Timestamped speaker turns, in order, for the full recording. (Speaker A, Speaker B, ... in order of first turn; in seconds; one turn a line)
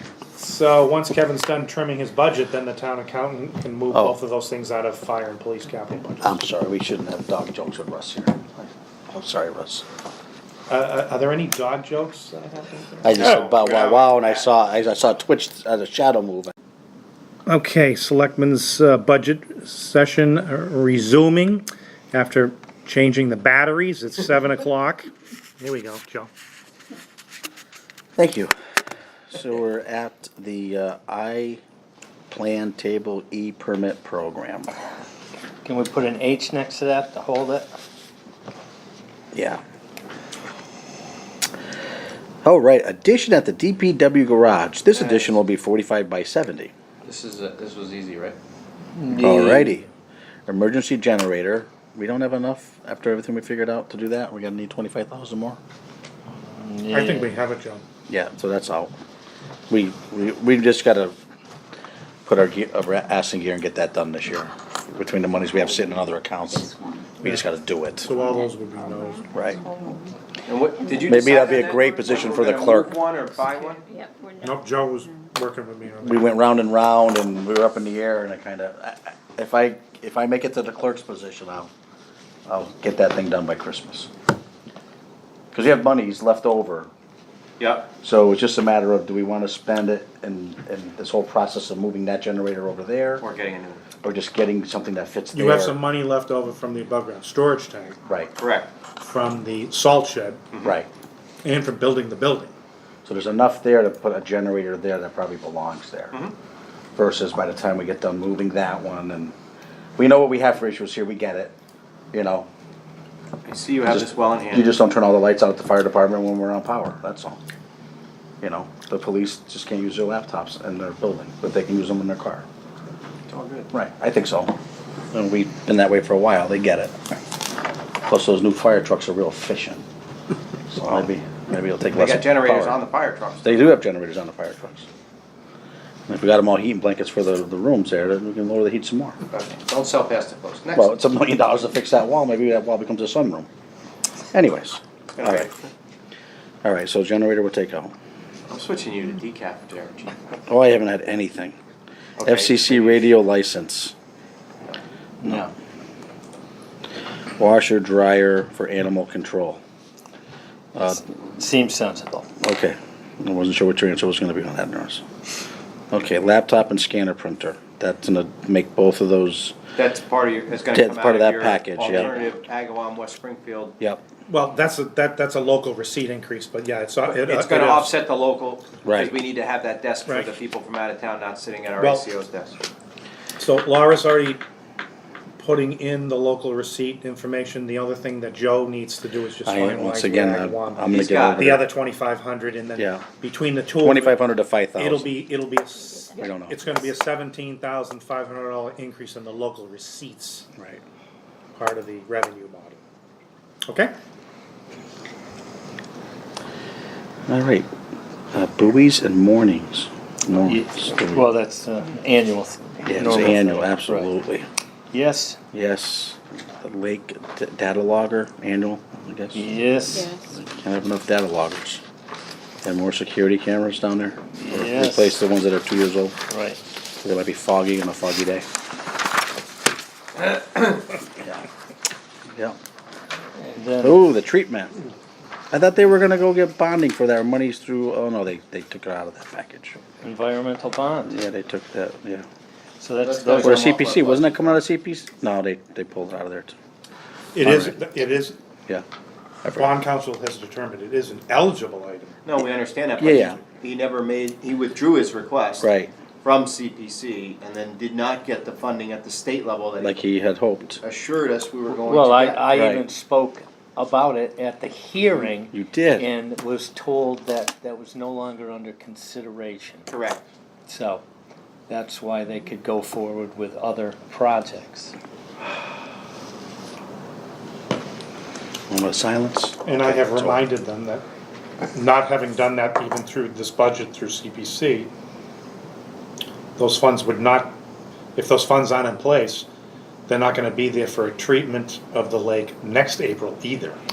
Speaker A: 0.4-6.4
Speaker B: 3.9-4.2
Speaker B: 6.2-9.8
Speaker A: 10.7-14.4
Speaker B: 13.0-16.5
Speaker A: 17.5-26.3
Speaker B: 28.2-28.5
Speaker B: 29.3-31.6
Speaker B: 32.3-34.7
Speaker C: 35.6-37.7
Speaker B: 39.3-39.6
Speaker B: 42.4-46.7
Speaker D: 47.0-48.4
Speaker C: 49.0-49.7
Speaker B: 49.1-49.9
Speaker B: 50.5-55.6
Speaker C: 56.5-57.3
Speaker A: 56.9-57.8
Speaker B: 58.1-59.0
Speaker B: 59.7-61.1
Speaker B: 62.3-68.1
Speaker E: 66.5-67.1
Speaker A: 67.2-67.5
Speaker A: 68.0-69.6
Speaker E: 68.2-70.1
Speaker B: 69.3-69.6
Speaker D: 70.5-73.9
Speaker E: 70.8-72.5
Speaker B: 71.0-72.9
Speaker E: 73.9-74.6
Speaker A: 74.4-76.4
Speaker B: 76.0-81.7
Speaker B: 82.5-84.1
Speaker B: 85.5-86.9
Speaker D: 87.6-87.9
Speaker B: 88.0-93.2
Speaker D: 93.2-93.8
Speaker B: 94.0-95.8
Speaker A: 95.3-98.0
Speaker D: 98.4-98.7
Speaker A: 99.0-100.5
Speaker A: 101.4-102.5
Speaker B: 103.0-106.2
Speaker B: 107.0-109.3
Speaker B: 110.0-111.5
Speaker B: 112.1-112.5
Speaker D: 113.5-114.8
Speaker B: 113.9-117.4
Speaker B: 118.4-122.5
Speaker D: 123.3-123.7
Speaker B: 123.7-124.5
Speaker B: 125.1-127.0
Speaker B: 128.1-129.8
Speaker B: 130.7-132.8
Speaker D: 131.9-133.6
Speaker B: 133.4-134.9
Speaker B: 136.1-139.2
Speaker D: 139.3-141.0
Speaker B: 140.8-143.5
Speaker B: 144.3-145.5
Speaker D: 145.2-145.7
Speaker B: 146.6-147.9
Speaker D: 148.5-150.2
Speaker B: 150.5-151.6
Speaker D: 152.2-153.1
Speaker B: 152.2-153.9
Speaker B: 155.2-155.5
Speaker B: 157.4-159.6
Speaker B: 160.8-161.0
Speaker C: 160.8-162.3
Speaker B: 162.4-165.1
Speaker B: 165.9-169.6
Speaker D: 169.8-173.8
Speaker B: 170.7-172.1
Speaker C: 171.8-172.3
Speaker A: 174.3-177.9
Speaker D: 177.1-182.6
Speaker B: 178.8-179.2
Speaker A: 180.1-180.3
Speaker A: 181.8-182.1
Speaker A: 183.4-184.4
Speaker A: 185.4-200.5
Speaker B: 189.4-191.6
Speaker D: 190.9-191.6
Speaker B: 192.8-193.1
Speaker B: 193.8-195.1
Speaker B: 196.2-196.6
Speaker B: 200.6-200.8
Speaker A: 201.6-202.8
Speaker A: 203.7-203.9
Speaker B: 207.3-207.7
Speaker B: 208.3-211.3
Speaker C: 210.4-214.1
Speaker B: 212.8-214.5
Speaker C: 214.9-215.4
Speaker B: 215.5-219.5
Speaker C: 219.3-220.1
Speaker B: 220.3-221.8
Speaker B: 222.6-226.2
Speaker C: 224.4-225.2
Speaker C: 226.3-226.6
Speaker B: 227.0-228.5
Speaker B: 231.2-231.4
Speaker C: 233.4-234.1
Speaker B: 233.8-234.7
Speaker B: 235.5-239.8
Speaker C: 240.0-241.2
Speaker B: 241.1-242.2
Speaker C: 242.8-244.0
Speaker D: 243.0-244.6
Speaker B: 243.4-246.6
Speaker A: 247.3-248.4
Speaker B: 247.4-247.8
Speaker B: 249.4-249.7
Speaker A: 249.5-252.2
Speaker D: 252.2-255.7
Speaker B: 253.0-253.4
Speaker B: 255.6-255.9
Speaker D: 256.2-260.1
Speaker B: 259.8-260.8
Speaker D: 260.8-262.5
Speaker C: 261.7-269.9
Speaker B: 262.5-262.8
Speaker B: 265.4-266.1
Speaker D: 269.9-270.2
Speaker C: 270.7-271.0
Speaker C: 271.7-274.9
Speaker B: 278.7-280.4
Speaker A: 279.6-281.1
Speaker A: 281.7-284.9
Speaker A: 286.6-287.6
Speaker A: 288.2-289.4
Speaker A: 290.1-293.8